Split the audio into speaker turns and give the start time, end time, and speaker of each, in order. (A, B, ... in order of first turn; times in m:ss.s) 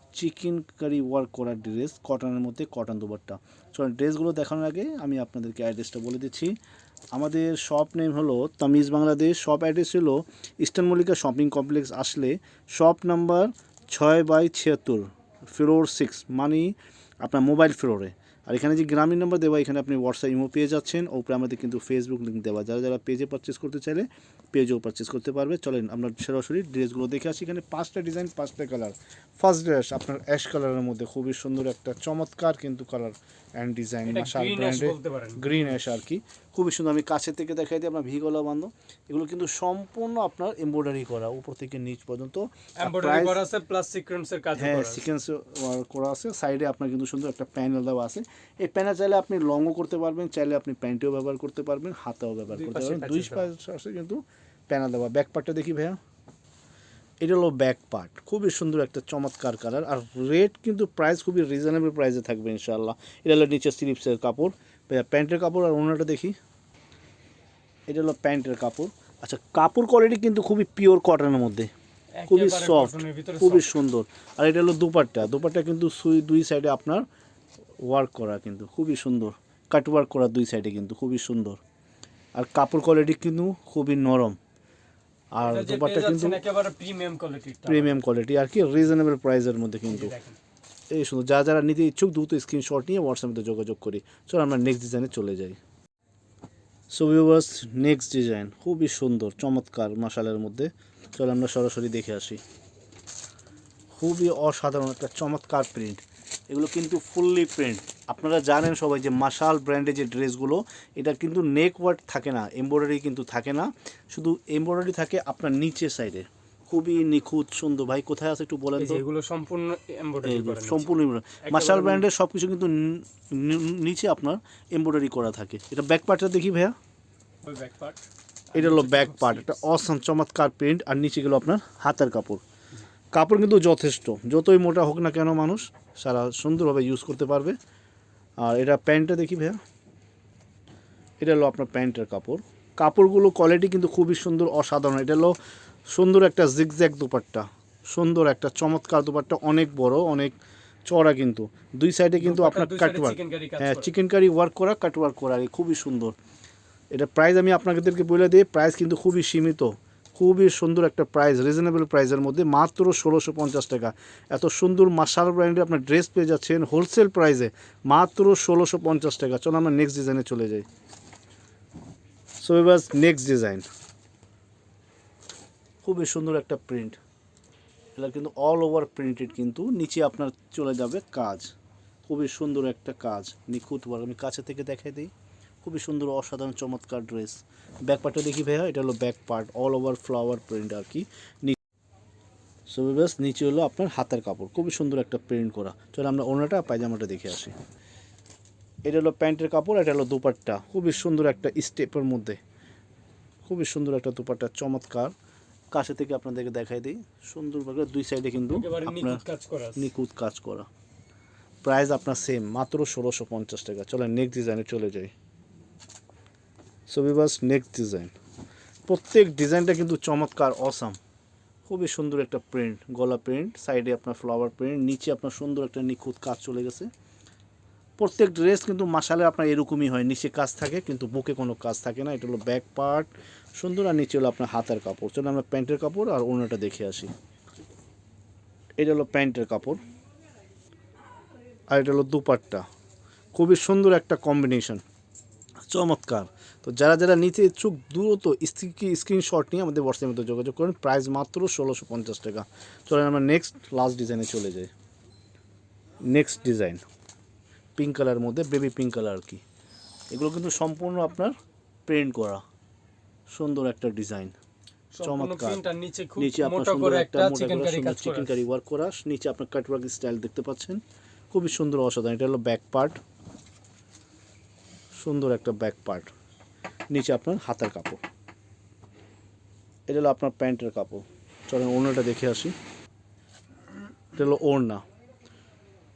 0:00.1-0:06.5 A
0:07.1-0:43.4 A
0:34.1-0:35.7 B
0:42.8-0:45.0 B
0:44.6-0:56.0 A
0:52.5-0:53.5 B
0:57.2-1:06.4 A
1:07.9-1:11.7 A
1:12.2-1:13.7 B
1:12.3-1:17.0 A
1:17.8-1:21.6 A
1:22.3-1:24.4 A
1:25.3-1:26.4 A
1:25.4-1:27.9 B
1:27.6-1:30.1 A
1:29.9-1:30.4 B
1:30.9-1:35.6 A
1:36.9-1:42.4 A
1:44.0-1:59.0 A
1:58.8-2:00.9 B
2:00.2-2:06.7 A
2:01.4-2:02.1 B
2:07.4-2:09.6 B
2:08.5-2:12.4 A
2:13.1-2:17.6 A
2:18.4-2:19.6 A
2:21.2-2:25.3 A
2:25.9-2:30.3 A
2:30.8-2:36.1 A
2:32.2-2:33.9 B
2:36.9-2:50.6 A
2:52.4-2:53.6 A
2:55.8-2:57.0 A
2:58.0-3:01.5 A
3:02.1-3:05.1 A
3:05.6-3:11.6 A
3:12.7-3:17.5 A
3:18.8-3:22.4 A
3:23.4-3:25.1 A
3:25.7-3:29.2 A
3:28.5-3:29.9 B
3:29.8-3:30.7 A
3:31.6-3:35.1 A
3:36.9-3:38.1 A
3:38.9-3:41.0 A
3:41.7-3:46.9 A
3:48.0-3:57.1 A
3:58.8-3:59.8 A
4:01.7-4:02.6 A
4:03.3-4:04.8 A
4:05.7-4:14.7 A
4:16.0-4:16.8 A
4:17.8-4:19.4 A
4:20.1-4:21.3 A
4:21.9-4:22.4 A
4:23.3-4:24.3 A
4:24.9-4:28.4 B
4:25.0-4:25.6 A
4:26.2-4:30.8 A
4:31.3-4:33.0 A
4:34.9-4:36.1 A
4:36.9-4:38.0 A
4:39.9-4:42.5 A
4:44.2-4:44.8 A